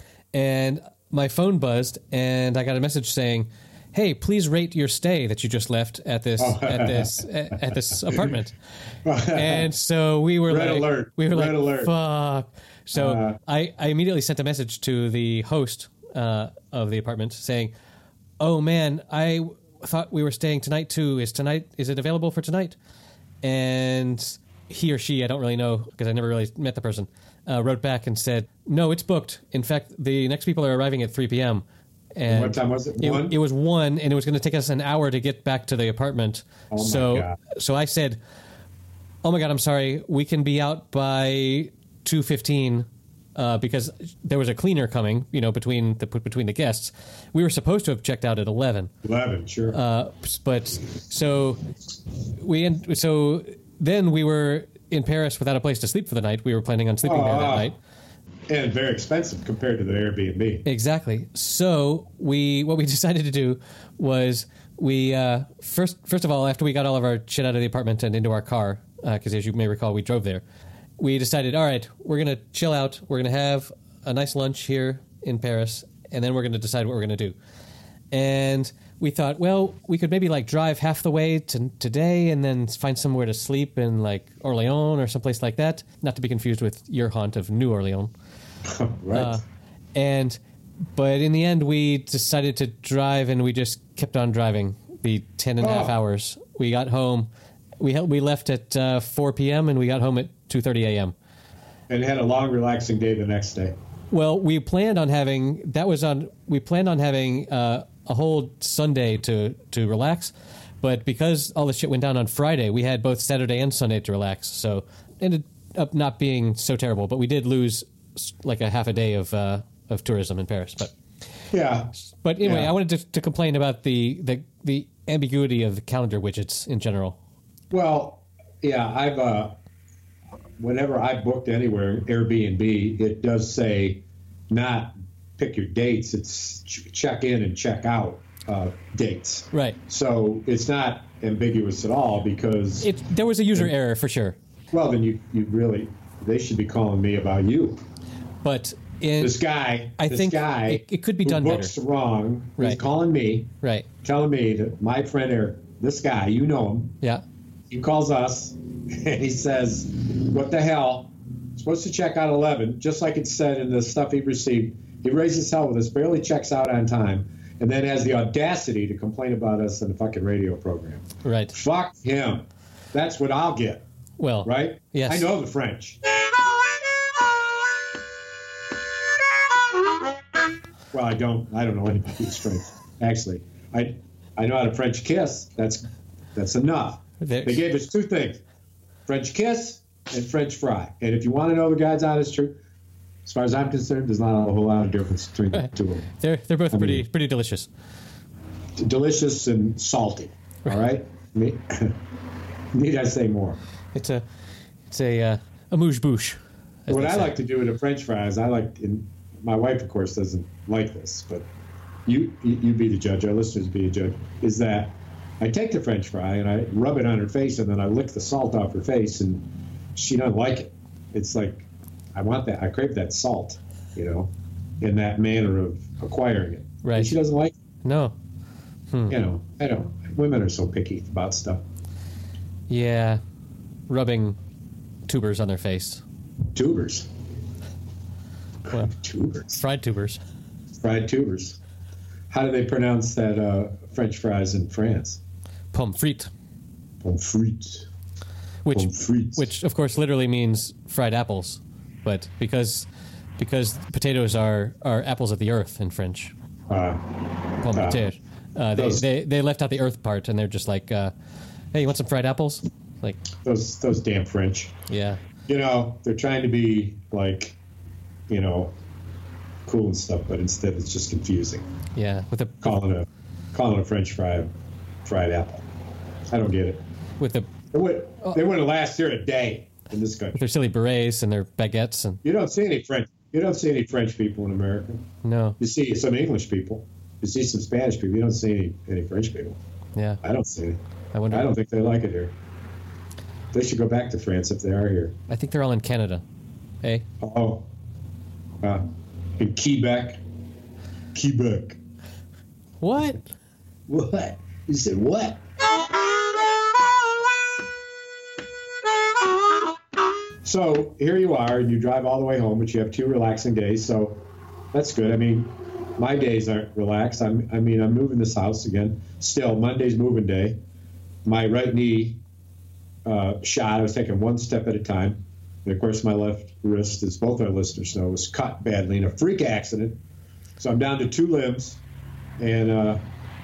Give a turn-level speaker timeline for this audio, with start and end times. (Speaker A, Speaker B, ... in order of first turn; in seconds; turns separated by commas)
Speaker A: 0.3-8.5, Speaker B: 6.4-7.2, Speaker B: 9.0-9.7, Speaker A: 9.3-17.7, Speaker B: 10.5-11.9, Speaker B: 12.9-13.4, Speaker A: 18.4-22.8, Speaker A: 23.4-31.6, Speaker A: 32.1-38.2, Speaker B: 32.3-33.4, Speaker B: 36.7-37.4, Speaker A: 39.2-48.9, Speaker B: 49.0-49.8, Speaker A: 49.7-51.6, Speaker A: 52.3-57.8, Speaker B: 57.0-57.7, Speaker B: 58.5-60.6, Speaker A: 60.6-70.4, Speaker A: 71.0-77.3, Speaker A: 78.1-88.1, Speaker B: 88.6-89.4, Speaker A: 89.1-89.4, Speaker A: 89.9-90.4, Speaker A: 91.0-97.3, Speaker B: 95.6-96.0, Speaker A: 97.8-101.1, Speaker B: 101.9-103.7, Speaker A: 104.1-120.9, Speaker B: 121.5-122.7, Speaker A: 122.2-127.2, Speaker B: 127.7-129.6, Speaker B: 130.6-142.9, Speaker A: 139.5-139.8, Speaker A: 142.8-144.3, Speaker B: 144.7-147.8, Speaker A: 148.4-149.4, Speaker B: 149.2-153.5, Speaker A: 150.0-151.7, Speaker A: 153.6-153.9, Speaker B: 154.0-157.0, Speaker B: 157.7-173.8, Speaker A: 171.2-171.6, Speaker A: 174.2-175.3, Speaker B: 174.4-176.0, Speaker B: 180.9-188.4, Speaker A: 187.2-187.6, Speaker B: 189.1-192.6, Speaker B: 193.2-196.1, Speaker A: 196.2-197.7, Speaker B: 196.7-197.0, Speaker B: 198.8-202.0, Speaker B: 202.7-203.6, Speaker A: 203.9-204.2, Speaker A: 204.9-207.3, Speaker B: 206.9-211.5, Speaker B: 212.1-227.5, Speaker A: 226.8-227.2, Speaker A: 227.8-228.2, Speaker A: 228.9-229.2, Speaker B: 229.1-231.6, Speaker A: 232.7-233.2, Speaker A: 233.9-234.4, Speaker A: 235.1-236.0, Speaker B: 236.5-237.1, Speaker B: 238.7-239.6, Speaker A: 239.5-240.2, Speaker B: 240.8-241.6, Speaker B: 242.3-245.2, Speaker A: 245.7-246.3, Speaker B: 247.0-247.9, Speaker A: 248.6-256.3, Speaker B: 248.7-249.5, Speaker B: 256.7-257.1, Speaker A: 257.6-261.1, Speaker B: 257.7-258.0, Speaker B: 258.8-259.0, Speaker A: 261.7-263.2, Speaker B: 263.4-264.8, Speaker A: 264.9-265.2, Speaker B: 265.5-267.6, Speaker B: 268.3-268.7, Speaker B: 269.6-271.7, Speaker A: 271.9-272.7, Speaker B: 272.6-274.5, Speaker B: 275.0-275.6, Speaker B: 276.3-276.8, Speaker A: 277.2-277.5, Speaker B: 277.7-280.4, Speaker A: 280.3-282.2, Speaker B: 282.2-285.0, Speaker A: 285.2-285.6, Speaker B: 285.6-289.6, Speaker A: 289.9-290.2, Speaker B: 290.2-290.8, Speaker A: 291.1-291.5, Speaker B: 291.3-292.3, Speaker B: 293.5-295.2, Speaker A: 295.3-296.2, Speaker B: 297.2-297.7, Speaker B: 298.6-300.2, Speaker B: 301.1-301.8, Speaker A: 302.8-303.3, Speaker B: 303.9-305.4, Speaker B: 310.4-320.6, Speaker B: 321.2-322.2, Speaker B: 323.0-330.0, Speaker B: 330.6-331.8, Speaker B: 332.4-333.0